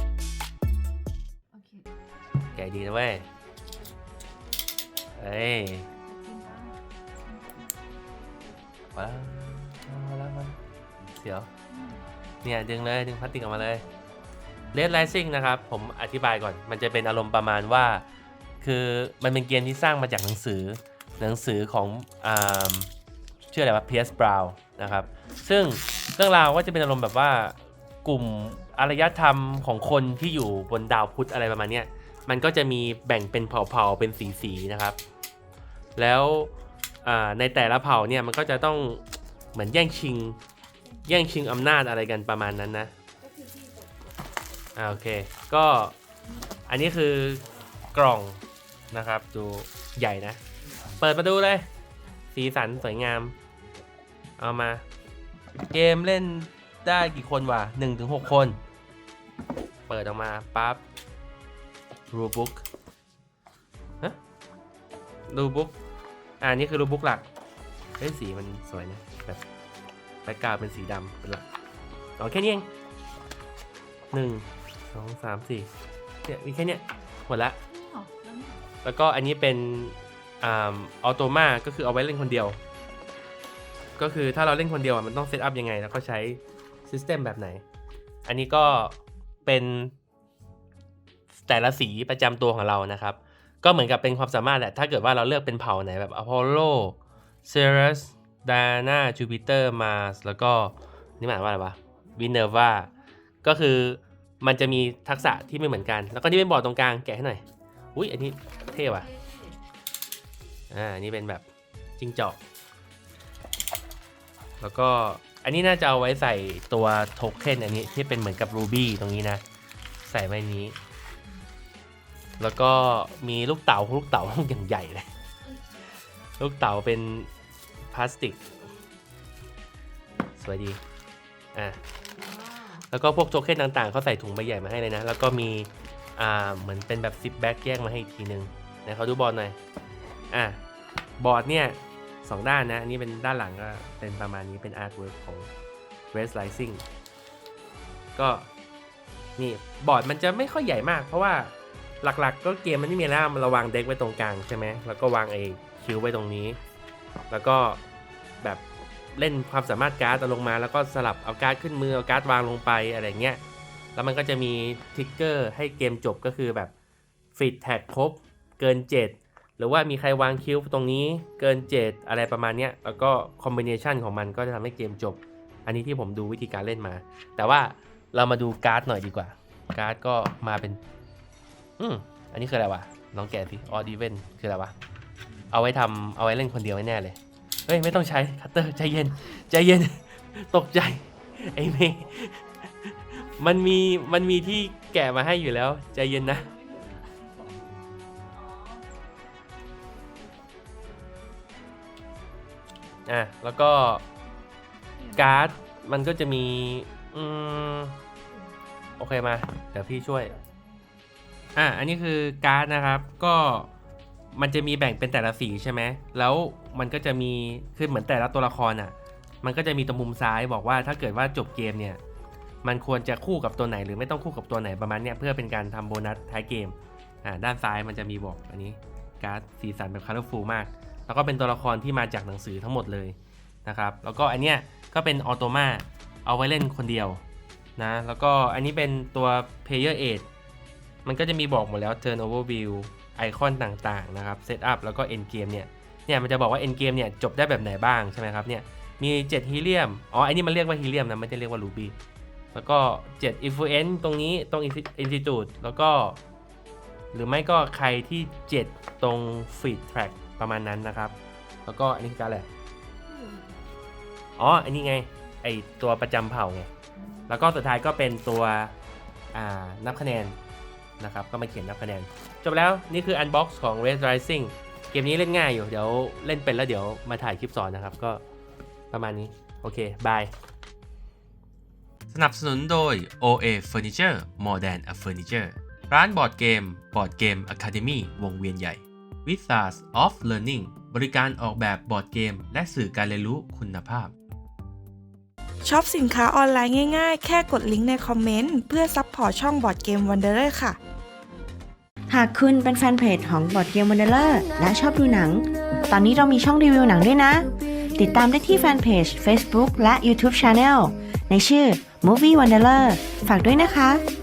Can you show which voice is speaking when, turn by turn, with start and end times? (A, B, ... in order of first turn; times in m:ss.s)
0:01.5-0:01.9 A
0:02.5-0:03.3 B
0:05.2-0:05.9 B
0:06.0-0:07.7 A
0:09.0-0:11.5 B
0:11.7-0:12.0 A
0:12.4-0:13.8 B
0:14.7-0:18.0 B
0:18.6-0:22.9 B
0:23.5-0:35.0 B
0:36.0-0:36.5 B
0:37.0-0:39.0 B
0:39.5-0:40.4 B
0:41.1-0:42.9 B
0:44.8-0:46.0 B
0:46.7-0:50.4 B
0:51.0-0:51.7 B
0:52.3-0:53.3 B
0:54.4-0:54.8 B
0:55.7-0:58.6 B
0:59.9-1:00.8 B
1:02.1-1:02.6 B
1:05.3-1:05.8 B
1:06.4-1:07.2 B
1:08.0-1:09.4 B
1:10.2-1:11.4 B
1:12.2-1:12.7 B
1:14.1-1:15.7 B
1:16.2-1:17.6 B
1:17.7-1:18.6 A
1:18.8-1:22.6 B
1:24.0-1:27.6 B
1:28.2-1:29.9 B
1:31.4-1:42.9 B
1:43.4-1:47.4 B
1:47.9-1:49.1 B
1:48.8-1:49.6 A
1:50.7-1:51.5 B
1:52.0-1:52.4 B
1:54.6-1:59.4 B
2:00.0-2:00.8 B
2:02.4-2:05.1 B
2:06.4-2:07.3 B
2:07.9-2:08.4 B
2:10.4-2:10.8 B
2:11.5-2:11.8 B
2:12.2-2:12.8 A
2:12.9-2:19.6 B
2:20.3-2:20.6 B
2:21.2-2:25.5 B
2:26.1-2:26.8 B
2:28.2-2:28.5 B
2:29.4-2:36.6 B
2:37.3-2:37.8 B
2:39.1-2:43.4 B
2:44.0-2:46.7 B
2:47.3-3:00.8 B
3:01.8-3:04.7 B
3:05.5-3:16.5 B
3:16.5-3:17.1 A
3:18.3-3:18.8 A
3:23.1-3:24.0 B
3:25.0-3:25.5 A
3:25.2-3:28.0 B
3:29.0-3:30.3 B
3:30.3-3:30.9 A
3:31.6-3:33.7 B
3:34.3-3:42.0 B
3:42.6-3:57.2 B
3:57.8-4:00.3 B
4:01.0-4:12.0 B
4:12.5-4:16.2 B
4:17.1-4:21.1 B
4:21.6-4:22.5 B
4:23.1-4:23.5 A
4:24.4-4:26.7 B
4:27.0-4:27.3 A
4:27.3-4:28.8 B
4:29.3-4:30.4 B
4:31.0-4:38.2 B
4:38.9-4:40.3 B
4:42.1-4:54.1 B
4:55.6-5:00.8 C
5:02.1-5:14.0 D